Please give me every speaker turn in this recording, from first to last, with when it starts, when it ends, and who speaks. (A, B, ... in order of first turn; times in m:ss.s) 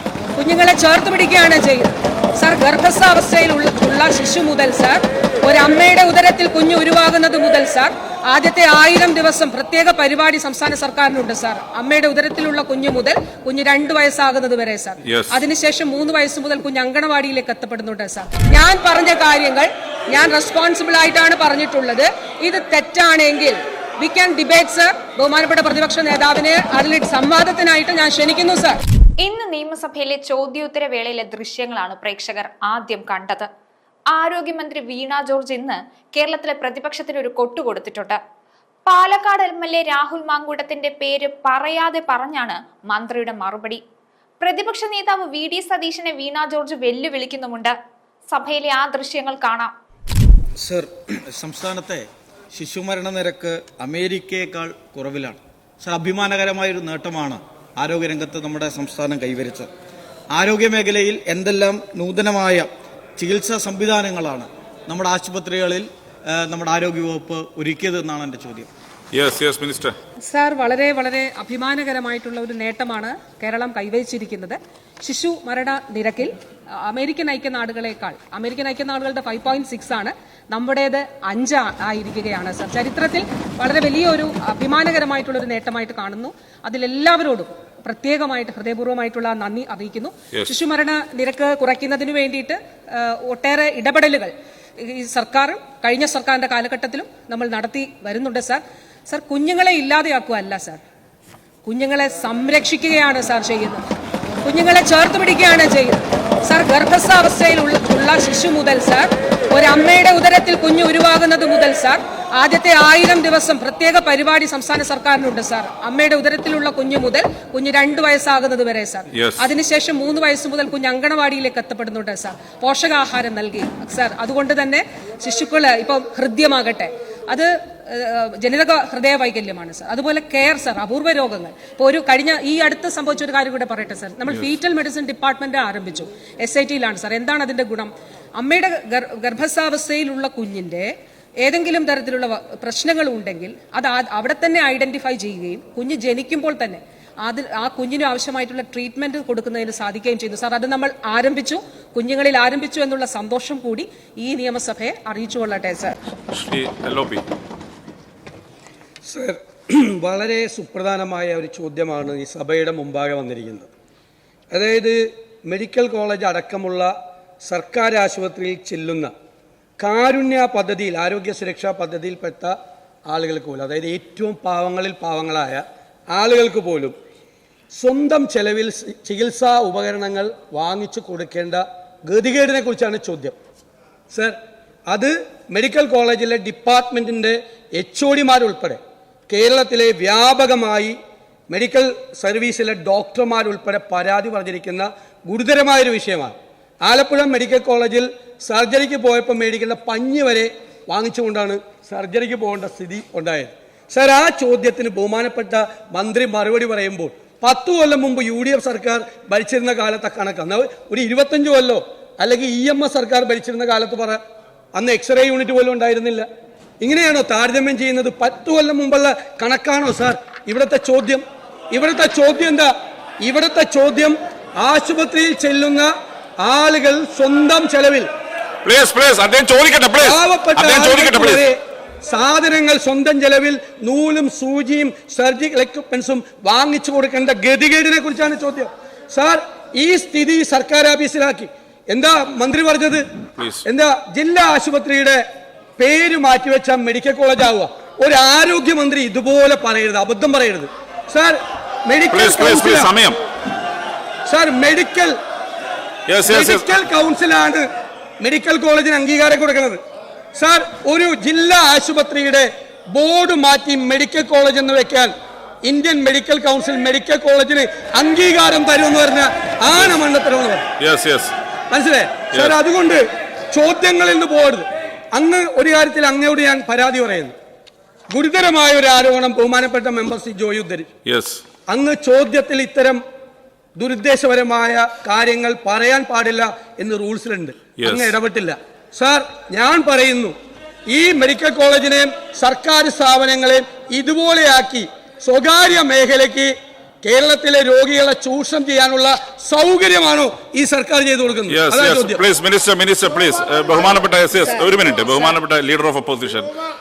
0:00.3-0:28.8 A
0:15.0-0:15.4 B
0:29.2-0:33.5 C
0:34.1-0:38.2 C
0:38.8-0:43.8 C
0:44.4-0:47.8 C
0:48.3-0:49.8 C
0:50.6-0:59.7 D
1:00.3-1:08.7 D
1:09.1-1:10.0 B
1:10.2-1:40.8 A
1:41.6-1:43.8 A
1:44.4-2:20.9 A
1:59.1-1:59.4 B
2:21.4-2:36.0 A
2:36.3-2:37.2 B
2:39.0-2:43.7 E
2:44.5-2:46.9 E
2:47.4-2:49.1 E
2:49.8-2:52.6 E
2:53.1-2:56.9 E
2:57.7-3:03.3 E
3:04.1-3:04.4 E
3:04.9-3:11.0 E
3:11.5-3:34.2 E
3:34.7-3:36.3 E
3:36.8-3:42.7 E
3:43.2-3:45.9 E
3:46.4-3:48.1 E
3:48.6-3:51.5 B
3:50.0-4:03.0 E
4:03.4-4:03.6 B
4:03.6-4:05.2 E
4:05.8-4:12.9 E
4:12.1-4:13.2 B
4:14.2-4:15.1 E
4:16.1-4:16.7 B
4:16.2-4:17.7 E
4:18.2-4:19.8 E
4:20.3-4:25.1 E
4:25.6-4:30.6 E
4:30.8-4:31.3 B
4:31.7-4:37.4 E
4:38.1-4:40.9 E
4:41.0-4:41.4 B
4:41.7-4:43.0 E
4:43.8-4:50.4 E
4:47.8-4:48.2 B
4:50.9-4:56.5 E
4:57.0-5:02.2 E
5:01.5-5:06.5 B